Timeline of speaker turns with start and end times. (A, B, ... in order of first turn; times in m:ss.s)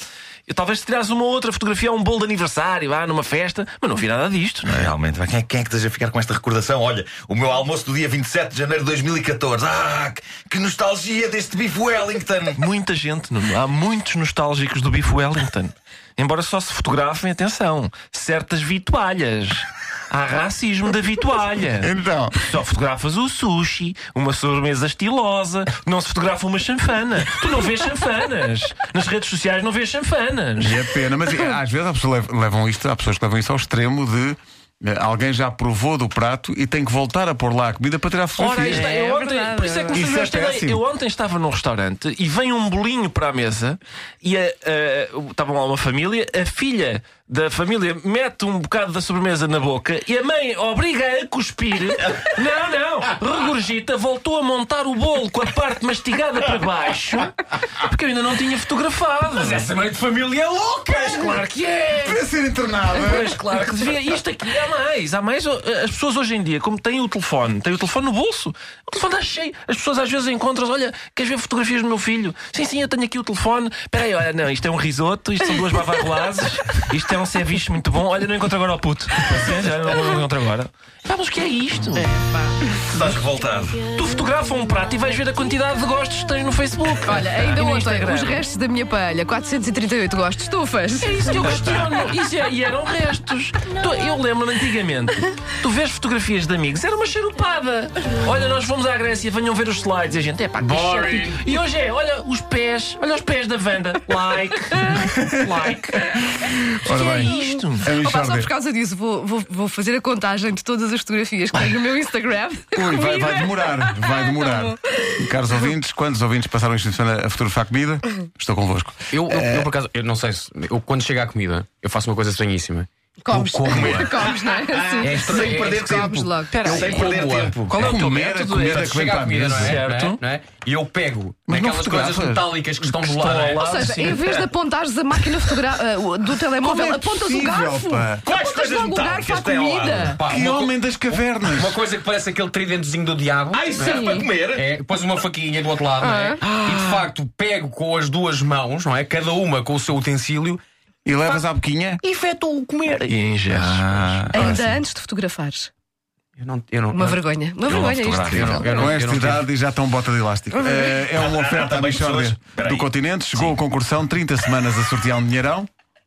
0:00.5-0:04.9 A
0:04.7-0:12.6 B
0:12.6-0:30.9 A
0:21.8-0:22.4 C
0:30.6-0:38.9 C
0:38.4-0:59.7 A
0:38.6-0:40.0 D
0:39.9-0:40.8 C
0:59.3-1:01.4 E
1:00.9-1:02.3 A
1:02.0-1:03.4 C
1:02.9-1:22.1 A
1:22.0-1:22.6 D
1:22.9-1:23.8 B
1:23.9-1:28.4 A
1:27.0-1:32.0 D
1:31.0-1:47.9 A
1:40.6-1:41.5 E
1:46.4-1:48.5 C
1:46.9-1:55.2 D
1:52.7-1:59.7 C
1:59.1-2:04.3 E
2:03.2-2:07.1 D
2:04.7-2:07.9 B
2:05.0-2:05.8 E
2:06.5-2:07.8 E
2:07.7-2:10.2 A
2:07.7-2:09.8 C
2:08.5-2:14.2 E
2:11.5-2:12.5 C
2:12.9-2:14.2 A
2:13.6-2:20.2 D
2:16.6-2:18.2 C
2:18.2-2:20.2 B
2:20.1-2:30.6 E
2:20.3-2:21.8 C
2:23.5-2:24.7 B
2:23.7-2:24.3 D
2:26.0-2:26.5 D
2:31.1-2:32.0 C
2:32.0-2:33.2 E
2:33.0-2:33.9 A
2:33.6-2:34.4 B
2:34.0-2:34.7 C
2:34.3-2:35.7 D
2:36.4-2:37.2 E
2:36.9-2:38.7 D
2:37.6-2:38.7 B
2:38.3-2:39.5 E
2:38.6-2:45.7 C
2:40.6-2:41.0 D
2:41.1-2:43.6 B